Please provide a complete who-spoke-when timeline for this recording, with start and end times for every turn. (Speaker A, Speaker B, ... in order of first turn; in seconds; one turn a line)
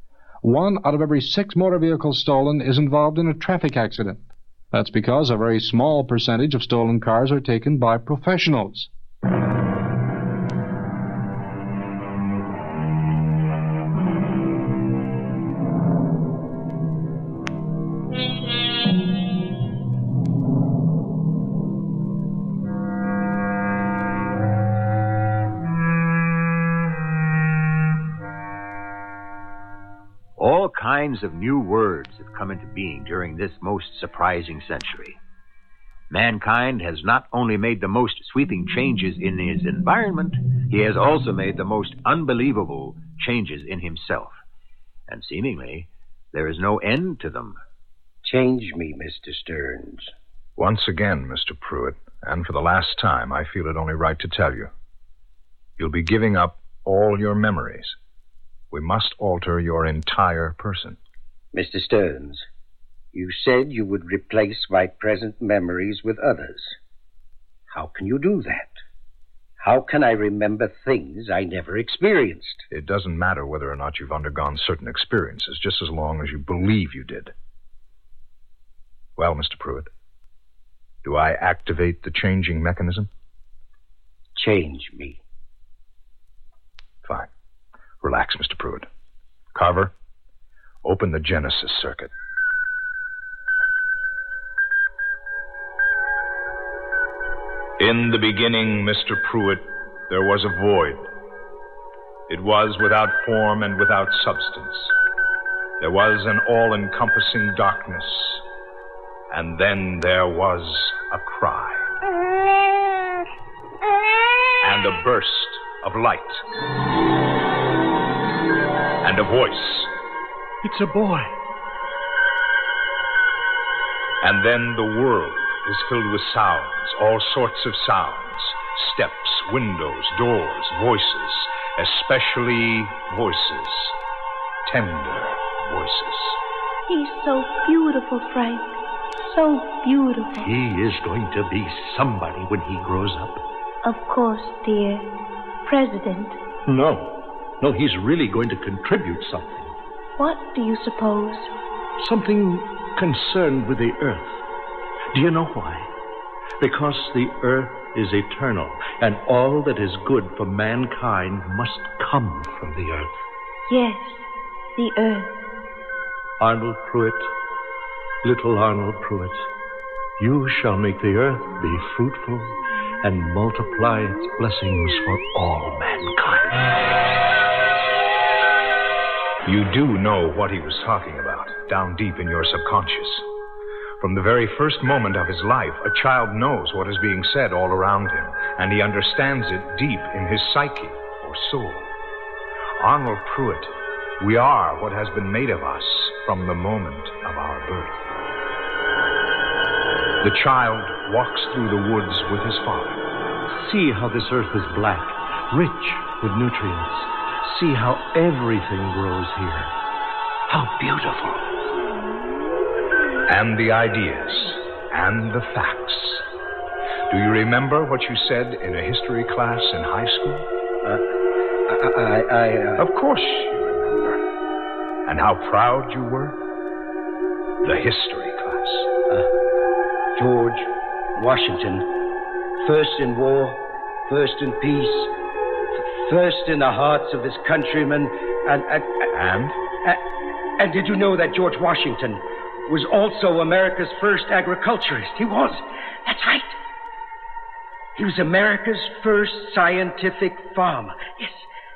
Speaker A: 0.4-8.9
Speaker B: 30.4-35.2
Speaker B: 36.1-44.4
Speaker B: 45.1-47.6
Speaker C: 48.2-50.1
Speaker D: 50.6-54.7
Speaker D: 55.8-58.0
Speaker D: 58.7-61.0
Speaker C: 61.5-62.5
Speaker C: 63.1-66.8
Speaker C: 67.7-68.8
Speaker C: 69.6-72.6
Speaker D: 72.7-77.3
Speaker D: 79.2-79.9
Speaker D: 81.0-83.1
Speaker C: 84.4-85.2
Speaker D: 87.0-87.3
Speaker D: 88.0-88.9
Speaker D: 89.5-89.9
Speaker D: 90.8-92.1
Speaker D: 97.8-101.1
Speaker D: 102.3-105.0
Speaker D: 105.8-108.4
Speaker D: 109.3-111.9
Speaker D: 114.6-116.5
Speaker D: 119.0-119.9
Speaker E: 120.6-121.3
Speaker D: 124.2-134.0
Speaker D: 134.7-136.4
Speaker F: 136.9-140.5
Speaker E: 140.4-143.4
Speaker F: 143.8-145.1
Speaker F: 145.7-146.4
Speaker E: 146.7-149.7
Speaker F: 150.2-151.5
Speaker E: 152.0-154.4
Speaker E: 155.1-155.9
Speaker E: 156.6-163.1
Speaker F: 163.7-165.3
Speaker E: 166.4-167.3
Speaker E: 168.2-169.4
Speaker E: 170.2-176.6
Speaker D: 179.4-183.3
Speaker D: 184.0-191.9
Speaker D: 192.8-198.0
Speaker D: 200.2-203.0
Speaker E: 203.6-209.7
Speaker E: 210.5-211.4
Speaker D: 213.3-216.3
Speaker D: 217.1-220.5
Speaker C: 221.7-222.8
Speaker D: 222.8-224.2
Speaker D: 225.1-226.4
Speaker D: 227.6-228.9
Speaker C: 230.2-231.9
Speaker C: 232.6-235.1
Speaker C: 235.8-239.1
Speaker D: 239.1-239.6
Speaker C: 240.6-246.6
Speaker C: 248.0-251.5